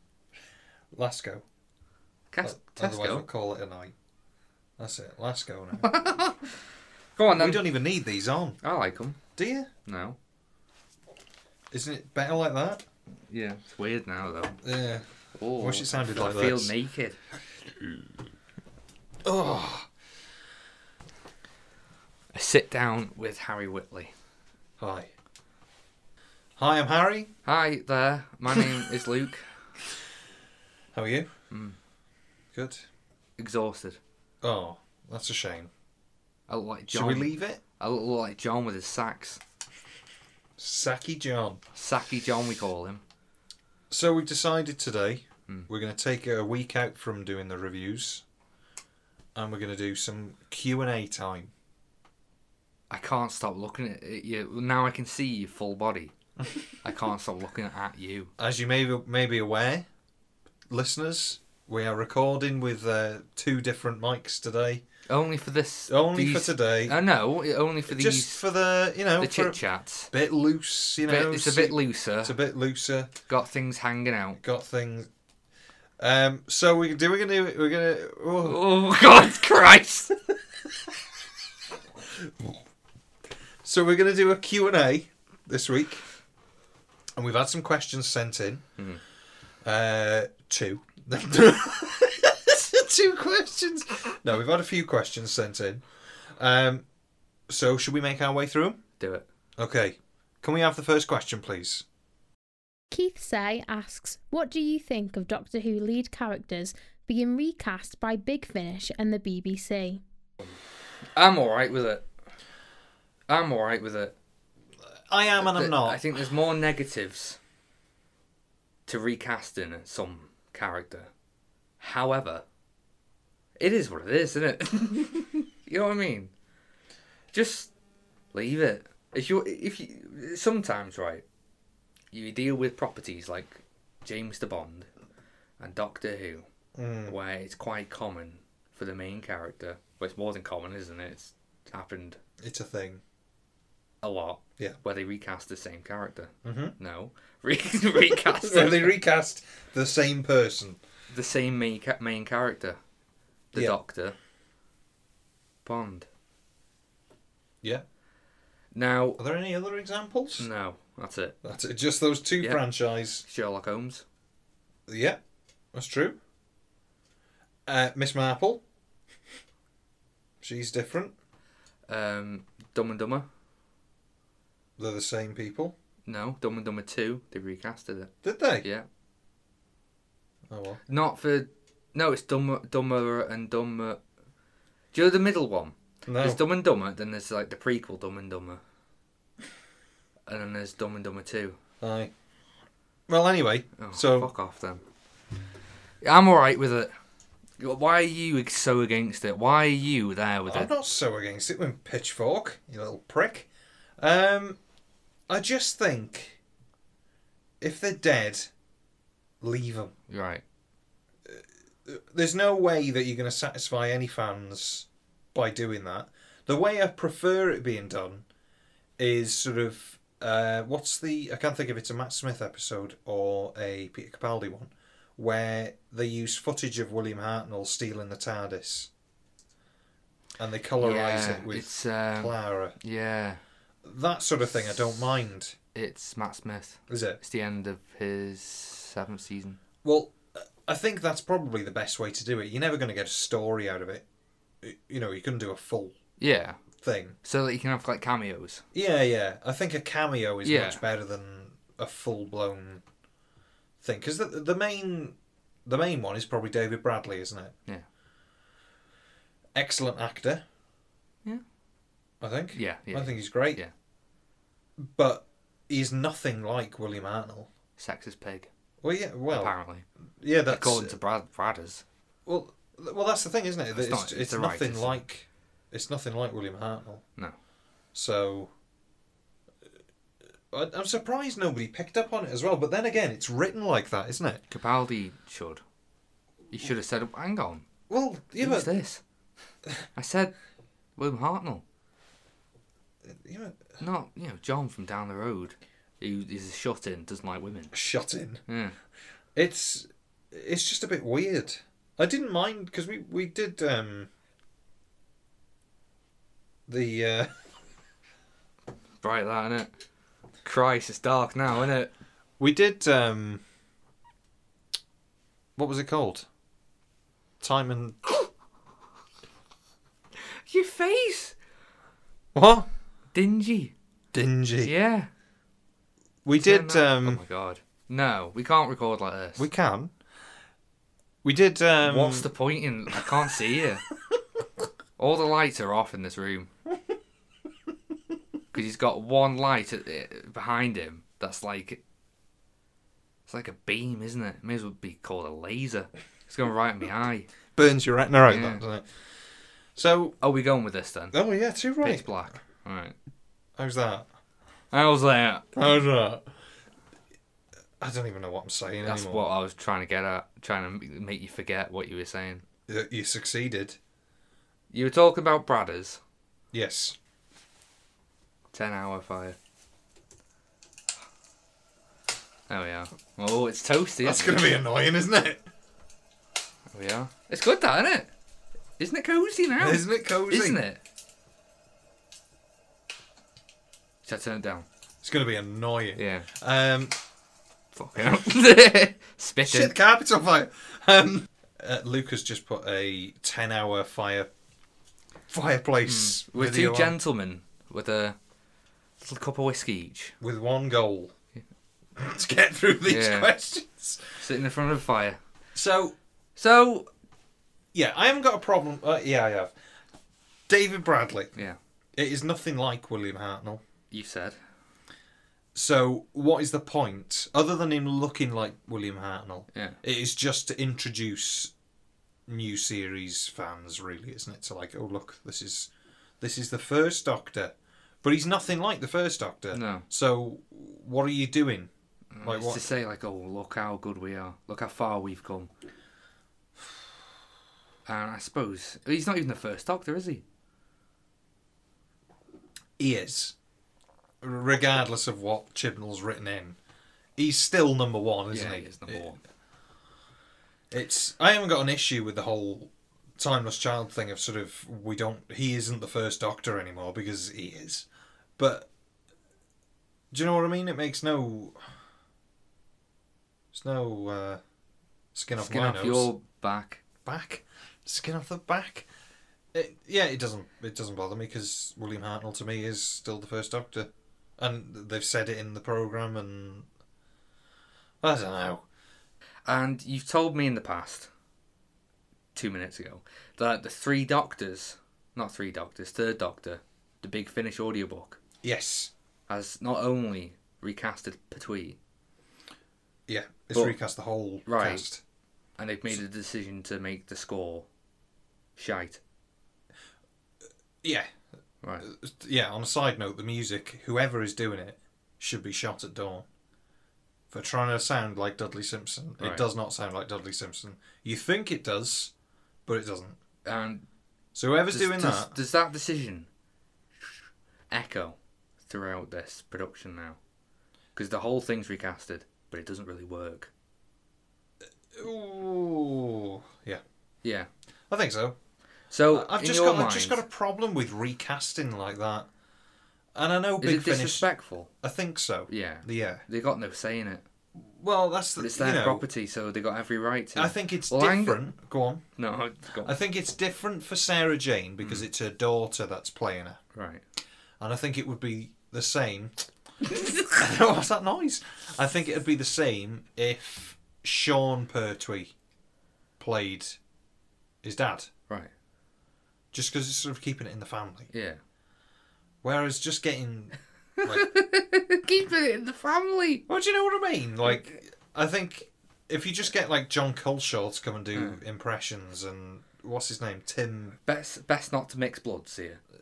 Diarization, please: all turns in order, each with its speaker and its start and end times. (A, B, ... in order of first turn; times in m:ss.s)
0:00.9-0:01.4 A
0:02.3-0:03.3 B
0:02.4-0:03.9 A
0:04.8-0:06.1 A
0:05.8-0:06.5 B
0:07.2-0:07.7 B
0:07.3-0:08.6 A
0:08.6-0:09.2 B
0:09.4-0:09.7 A
0:09.8-0:10.2 B
0:11.7-0:12.8 A
0:13.3-0:14.6 B
0:14.6-0:15.1 A
0:15.4-0:17.2 B
0:15.6-0:16.7 A
0:19.2-0:19.9 A
0:22.3-0:24.1 B
0:24.8-0:25.1 A
0:26.6-0:27.3 A
0:27.4-0:29.5 B
0:30.9-0:31.3 A
0:31.5-0:31.8 B
0:32.5-0:32.8 A
0:33.4-0:34.0 B
0:34.4-0:35.7 A
0:36.5-0:39.4 B
0:36.9-0:37.6 A
0:40.6-0:41.6 A
0:41.8-0:43.0 B
0:43.9-0:48.2 A
0:49.4-0:51.5 A
0:52.9-0:56.1 B
0:56.8-0:58.3 B
0:58.4-0:59.9 A
1:00.7-1:04.8 A
1:05.1-1:08.4 B
1:05.9-1:07.0 A
1:07.9-1:09.6 A
1:09.2-1:10.1 B
1:10.1-1:13.1 A
1:11.1-1:12.4 B
1:13.3-1:14.4 B
1:14.4-1:15.1 A
1:16.0-1:18.6 A
1:18.4-1:20.2 B
1:22.1-1:22.6 A
1:23.6-1:26.0 A
1:27.2-1:28.7 A
1:29.6-1:36.8 A
1:37.5-1:38.8 A
1:39.0-1:39.3 B
1:39.6-1:41.8 A
1:42.9-1:50.0 C
1:51.1-1:52.1 B
1:53.3-1:54.2 B
1:55.1-1:56.1 A
1:55.4-1:57.4 B
1:58.9-2:01.1 B
2:01.8-2:02.4 B
2:03.6-2:06.3 B
2:07.3-2:07.7 B
2:08.3-2:11.2 B
2:12.1-2:14.9 B
2:15.6-2:16.5 B
2:16.8-2:17.2 A
2:17.1-2:22.2 B
2:22.4-2:23.0 A
2:24.0-2:29.0 B
2:26.4-2:26.8 A
2:28.1-2:30.8 A
2:31.1-2:32.8 B
2:33.5-2:34.2 B
2:35.6-2:36.1 B
2:38.7-2:39.2 B
2:39.2-2:40.5 A
2:40.4-2:41.4 B
2:41.4-2:43.2 A
2:43.2-2:44.0 B
2:44.9-2:45.2 A
2:45.7-2:46.2 A
2:47.7-2:48.6 A
2:50.4-2:51.1 A
2:51.9-2:53.3 B
2:54.8-2:55.8 A
2:56.1-2:58.9 B
2:58.2-2:58.6 A
3:00.5-3:00.8 A
3:00.9-3:04.0 B
3:04.9-3:08.6 B
3:06.1-3:06.4 A
3:10.3-3:11.6 B
3:11.8-3:12.1 A
3:13.1-3:14.3 A
3:13.8-3:14.8 B
3:16.0-3:16.9 B
3:17.6-3:20.7 B
3:20.5-3:23.5 A
3:24.0-3:24.6 A
3:25.3-3:26.4 A
3:27.6-3:28.5 A
3:29.4-3:29.9 A
3:30.1-3:30.4 B
3:31.3-3:38.2 A
3:39.0-3:48.9 A
3:50.4-3:52.8 A
3:50.8-3:53.4 B
3:53.8-3:55.6 A
3:55.8-3:59.6 B
3:56.9-3:57.2 A
3:59.8-4:04.0 A
4:04.6-4:06.0 A
4:06.2-4:06.6 B
4:06.8-4:07.2 A
4:07.2-4:08.6 B
4:08.7-4:12.8 A
4:10.4-4:10.8 B
4:13.8-4:17.5 A
4:19.6-4:20.4 A
4:22.2-4:23.6 A
4:22.5-4:23.7 B
4:24.8-4:27.5 A
4:27.8-4:28.5 B
4:28.8-4:29.6 A
4:29.3-4:29.9 B
4:30.2-4:31.0 A
4:30.5-4:31.8 B
4:32.3-4:37.0 A
4:33.7-4:35.0 B
4:37.9-4:38.5 A
4:40.5-4:44.4 A
4:44.5-4:45.6 B
4:46.5-4:47.7 B
4:47.9-4:48.7 A
4:48.4-4:49.0 B
4:50.0-4:50.4 B
4:51.0-4:51.6 B
4:53.1-4:53.6 A
4:53.8-4:57.7 B
4:57.7-4:58.4 A
4:58.5-4:58.8 B
4:59.4-5:04.1 A
5:06.7-5:07.3 A
5:09.0-5:09.7 B
5:10.4-5:11.9 B
5:12.4-5:13.4 A
5:15.6-5:16.3 A
5:17.4-5:18.1 A
5:20.2-5:21.4 B
5:22.3-5:22.7 A
5:23.1-5:23.7 B
5:24.1-5:24.7 A
5:24.6-5:25.1 B
5:26.2-5:27.2 A
5:26.4-5:29.5 B
5:29.4-5:29.9 A
5:31.2-5:32.3 A
5:31.8-5:33.9 B
5:35.0-5:36.5 B
5:38.5-5:41.8 B
5:43.3-5:47.3 B
5:47.6-5:49.0 A
5:48.3-5:48.6 B
5:49.8-5:50.2 A
5:50.2-5:51.2 B
5:51.1-5:52.1 A
5:51.8-5:52.9 B
5:53.6-5:54.1 A
5:54.7-5:55.5 B
5:55.6-5:56.3 A
5:57.8-5:59.3 A
5:58.8-6:02.4 B
6:02.7-6:03.8 A
6:04.7-6:06.0 B
6:06.5-6:07.0 A
6:08.5-6:09.4 B
6:12.5-6:14.5 B
6:14.0-6:15.4 A
6:16.7-6:18.1 B
6:18.8-6:20.8 B
6:19.6-6:20.6 A
6:24.0-6:24.7 B
6:25.0-6:26.9 A
6:26.0-6:26.3 B
6:27.7-6:29.7 B
6:29.4-6:34.3 A
6:35.3-6:37.0 A
6:35.8-6:38.2 B
6:39.0-6:40.2 B
6:40.2-6:41.1 A
6:42.0-6:44.0 A
6:42.9-6:43.3 B
6:44.2-6:45.2 B
6:45.6-6:46.0 A
6:46.4-6:46.9 B
6:47.7-6:49.5 A
6:50.5-6:51.3 A
6:52.0-6:53.6 A
6:53.9-6:54.4 B
6:55.5-7:01.5 A
6:59.5-6:59.8 B
7:02.3-7:05.7 A
7:06.2-7:11.7 A
7:09.5-7:09.9 B
7:12.1-7:15.5 B
7:12.2-7:12.6 A
7:17.9-7:20.2 B
7:22.8-7:23.4 A
7:24.2-7:26.6 A
7:27.2-7:29.1 A
7:28.3-7:29.2 B
7:30.7-7:37.9 A
7:38.4-7:38.7 A
7:40.1-7:41.7 A
7:43.5-7:44.4 A
7:45.1-7:46.1 A
7:45.4-7:46.8 B
7:47.0-7:48.9 A
7:49.5-7:56.7 A
7:58.0-7:58.6 A
7:59.5-8:01.1 B
8:02.4-8:08.2 B
8:08.4-8:08.9 A
8:09.3-8:11.8 B
8:13.1-8:15.0 A
8:13.5-8:13.8 B
8:14.5-8:14.9 B
8:15.6-8:17.7 B
8:18.6-8:19.0 B
8:20.8-8:21.1 A
8:21.6-8:21.9 B
8:21.8-8:26.3 A
8:27.3-8:32.1 A
8:29.2-8:29.5 B
8:32.7-8:33.2 A
8:33.5-8:33.8 B
8:34.4-8:35.4 A
8:34.7-8:36.3 B
8:37.7-8:40.2 B
8:41.0-8:43.5 B
8:44.9-8:46.8 A
8:47.2-8:47.5 B
8:47.9-8:48.4 A
8:48.9-8:50.2 B
8:49.1-8:52.3 A
8:53.2-8:54.3 A
8:53.6-8:54.7 B
8:54.8-8:56.2 A
8:55.5-8:57.2 B
8:57.6-8:59.0 A
8:58.4-9:01.4 B
9:00.4-9:02.0 A
9:02.2-9:03.0 B
9:02.8-9:06.6 A
9:06.7-9:07.0 B
9:07.6-9:09.3 A
9:10.0-9:10.2 B
9:10.3-9:15.3 A
9:16.2-9:16.8 A
9:17.6-9:18.1 A
9:19.5-9:21.1 A
9:21.1-9:21.4 B
9:22.4-9:24.3 A
9:24.0-9:26.4 B
9:26.5-9:34.0 A
9:31.2-9:31.4 B
9:34.1-9:35.8 B